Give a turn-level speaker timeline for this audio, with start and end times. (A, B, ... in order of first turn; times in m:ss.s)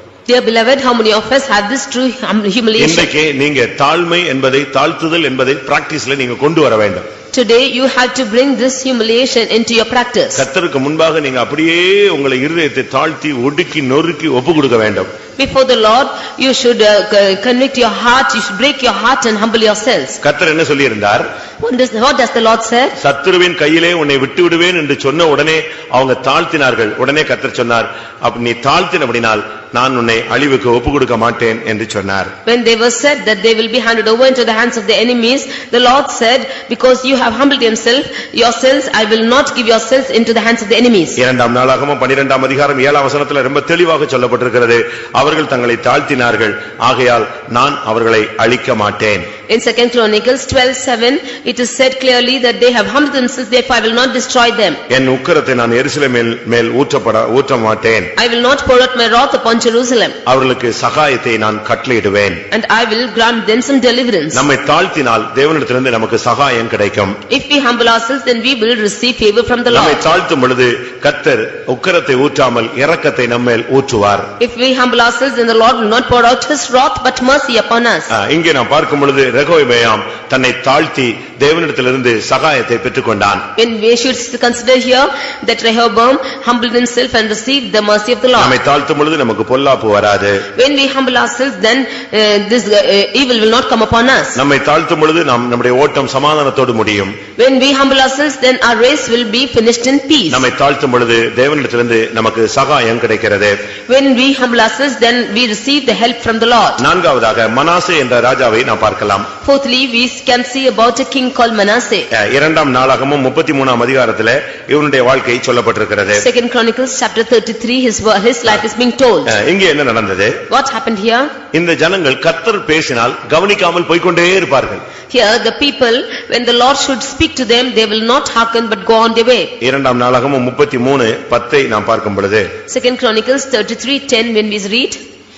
0:00.3-0:03.1 A
0:02.8-0:07.1 B
0:07.3-0:10.4 A
0:10.4-0:15.1 B
0:15.4-0:20.2 A
0:20.2-0:21.3 B
0:21.6-0:23.0 A
0:23.0-0:32.3 B
0:32.5-0:41.2 A
0:41.2-0:49.3 B
0:49.5-0:54.8 A
0:54.9-0:58.1 B
0:58.2-1:00.2 A
1:00.3-1:02.4 B
1:02.5-1:04.4 A
1:04.3-1:07.2 B
1:07.3-1:10.0 A
1:09.7-1:14.3 B
1:14.4-1:18.1 A
1:18.1-1:23.4 B
1:23.6-1:28.6 A
1:28.4-1:30.4 B
1:30.6-1:34.4 A
1:34.4-1:37.2 B
1:37.4-1:40.5 A
1:40.3-1:43.6 B
1:43.9-1:46.8 A
1:46.8-1:49.3 B
1:49.4-1:52.1 A
1:52.1-1:56.2 B
1:56.2-1:59.3 A
1:59.3-2:00.4 B
2:00.5-2:01.3 A
2:01.5-2:04.8 B
2:05.1-2:09.5 A
2:09.6-2:12.5 B
2:12.7-2:15.0 A